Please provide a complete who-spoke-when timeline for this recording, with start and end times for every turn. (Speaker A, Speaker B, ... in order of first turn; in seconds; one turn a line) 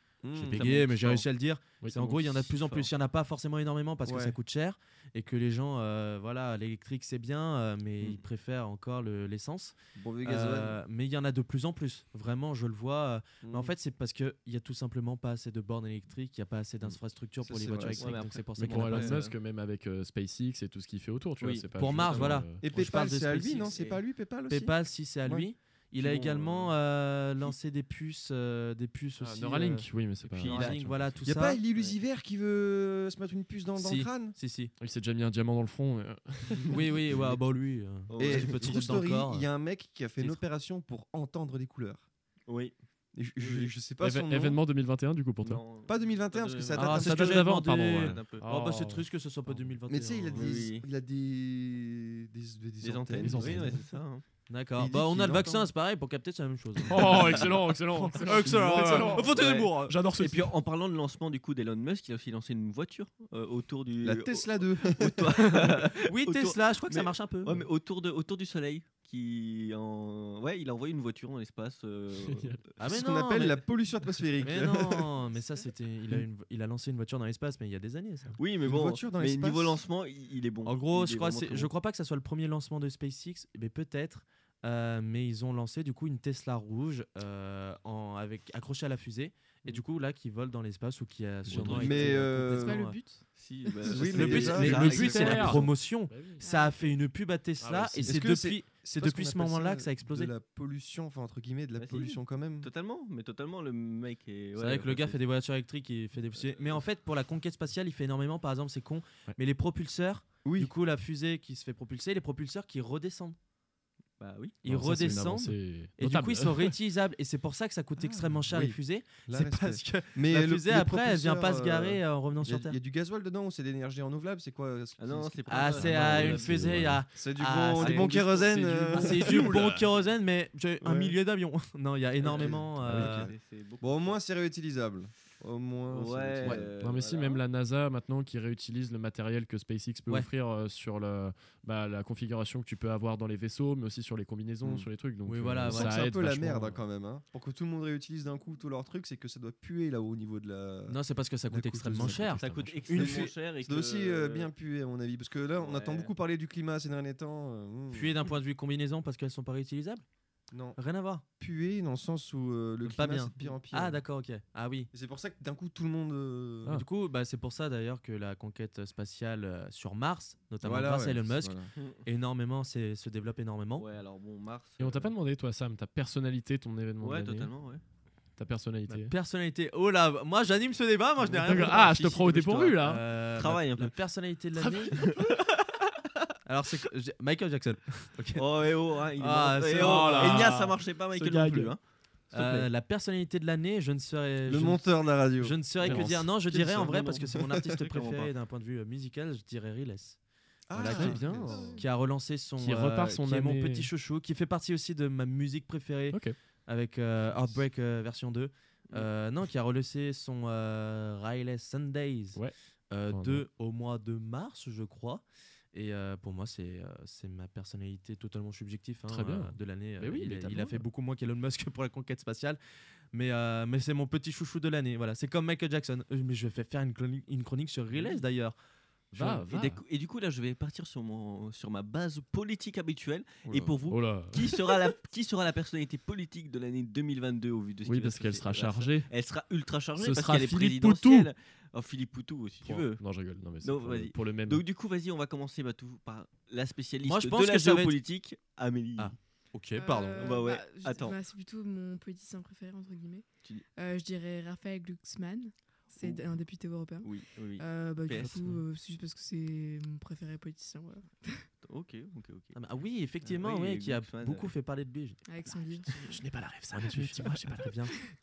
Speaker A: 0.2-0.8
Speaker B: 0.3-19.2
Speaker C: 0.5-1.2
Speaker C: 1.9-2.9
Speaker A: 4.0-4.3
Speaker A: 10.0-10.8
Speaker A: 13.4-13.7
Speaker A: 17.4-18.2
Speaker C: 18.0-19.4
Speaker D: 18.6-22.6
Speaker C: 21.4-22.4
Speaker B: 21.8-23.9
Speaker A: 22.6-25.5
Speaker C: 23.7-24.0
Speaker B: 24.5-31.6
Speaker A: 26.0-26.4
Speaker C: 26.1-26.7
Speaker D: 29.2-31.2
Speaker C: 30.2-31.0
Speaker A: 31.2-34.4
Speaker B: 33.8-34.7
Speaker D: 34.8-36.8
Speaker B: 36.7-39.5
Speaker C: 38.1-38.8
Speaker A: 38.2-42.0
Speaker C: 42.5-42.7
Speaker A: 43.1-44.6
Speaker C: 43.4-43.7
Speaker D: 44.0-45.6
Speaker C: 45.4-47.3
Speaker A: 45.8-47.6
Speaker B: 46.7-50.5
Speaker D: 47.0-49.6
Speaker C: 48.0-48.4
Speaker A: 49.9-53.7
Speaker C: 50.3-50.9
Speaker C: 52.8-54.2
Speaker D: 53.2-53.8
Speaker B: 54.5-60.0
Speaker A: 54.8-55.7
Speaker D: 56.9-59.3
Speaker A: 58.2-59.2
Speaker C: 59.2-72.5
Speaker D: 59.9-60.5
Speaker A: 64.0-65.5
Speaker B: 66.0-67.6
Speaker D: 72.2-72.6
Speaker B: 72.8-73.6
Speaker A: 72.9-75.3
Speaker B: 74.4-78.4
Speaker C: 78.4-81.7
Speaker A: 78.6-79.8
Speaker B: 80.6-93.0
Speaker D: 91.5-92.8
Speaker A: 91.5-92.9
Speaker E: 92.6-93.2
Speaker C: 93.3-95.7
Speaker A: 93.8-95.6
Speaker B: 93.9-100.3
Speaker D: 94.5-96.4
Speaker E: 96.4-96.9
Speaker D: 97.6-98.2
Speaker A: 98.0-102.7
Speaker C: 101.8-105.2
Speaker B: 104.5-113.4
Speaker A: 110.4-110.7
Speaker C: 114.2-114.6
Speaker B: 114.6-122.8
Speaker D: 114.6-116.7
Speaker A: 118.0-126.5
Speaker C: 125.0-126.6
Speaker B: 125.5-133.3
Speaker D: 125.8-127.0
Speaker A: 127.1-129.8
Speaker C: 127.8-128.1
Speaker D: 128.9-129.3
Speaker A: 130.8-131.1
Speaker C: 132.2-134.2
Speaker A: 132.2-136.7
Speaker C: 135.9-137.4
Speaker B: 136.4-136.7
Speaker D: 136.8-146.8
Speaker A: 144.6-144.9
Speaker B: 145.2-146.0
Speaker A: 145.7-151.0
Speaker B: 150.9-153.3
Speaker A: 151.5-152.4
Speaker D: 151.9-152.9
Speaker C: 152.3-154.5
Speaker A: 152.9-158.2
Speaker C: 155.6-156.1
Speaker B: 157.9-160.1
Speaker A: 160.5-160.8
Speaker B: 160.7-161.2
Speaker A: 161.4-164.0
Speaker B: 162.8-164.9
Speaker A: 164.9-166.8
Speaker B: 166.7-173.8
Speaker A: 170.6-171.7
Speaker C: 171.8-172.0
Speaker C: 173.8-175.1
Speaker D: 174.8-177.5
Speaker C: 177.0-177.8
Speaker D: 178.4-179.1
Speaker B: 178.9-184.9
Speaker C: 181.3-181.8
Speaker D: 181.3-183.0
Speaker C: 183.3-183.9
Speaker D: 184.6-184.9
Speaker C: 184.9-186.0
Speaker B: 186.4-190.5
Speaker C: 188.3-191.8
Speaker D: 189.7-191.7
Speaker A: 192.3-192.7
Speaker B: 192.3-200.2
Speaker A: 194.4-196.2
Speaker C: 195.8-198.3
Speaker D: 195.8-196.1
Speaker A: 200.7-201.8
Speaker B: 200.7-212.4
Speaker D: 200.8-201.7
Speaker D: 202.6-203.9
Speaker B: 212.9-222.6
Speaker D: 213.1-213.4
Speaker D: 219.1-220.8
Speaker B: 223.1-228.6
Speaker D: 229.1-229.8
Speaker B: 229.1-229.5
Speaker C: 229.3-243.0
Speaker A: 233.5-233.7
Speaker D: 233.9-234.6
Speaker D: 237.8-239.1
Speaker D: 240.0-241.3
Speaker D: 242.6-244.6
Speaker C: 243.6-249.2
Speaker B: 247.0-248.0
Speaker B: 249.0-250.4
Speaker E: 249.8-261.4
Speaker C: 250.2-251.2
Speaker C: 256.0-256.2
Speaker C: 257.0-258.3
Speaker D: 258.2-258.6
Speaker C: 261.6-262.6
Speaker B: 262.5-265.2
Speaker C: 263.2-264.5
Speaker E: 265.3-266.2
Speaker D: 266.0-267.7
Speaker B: 266.7-267.9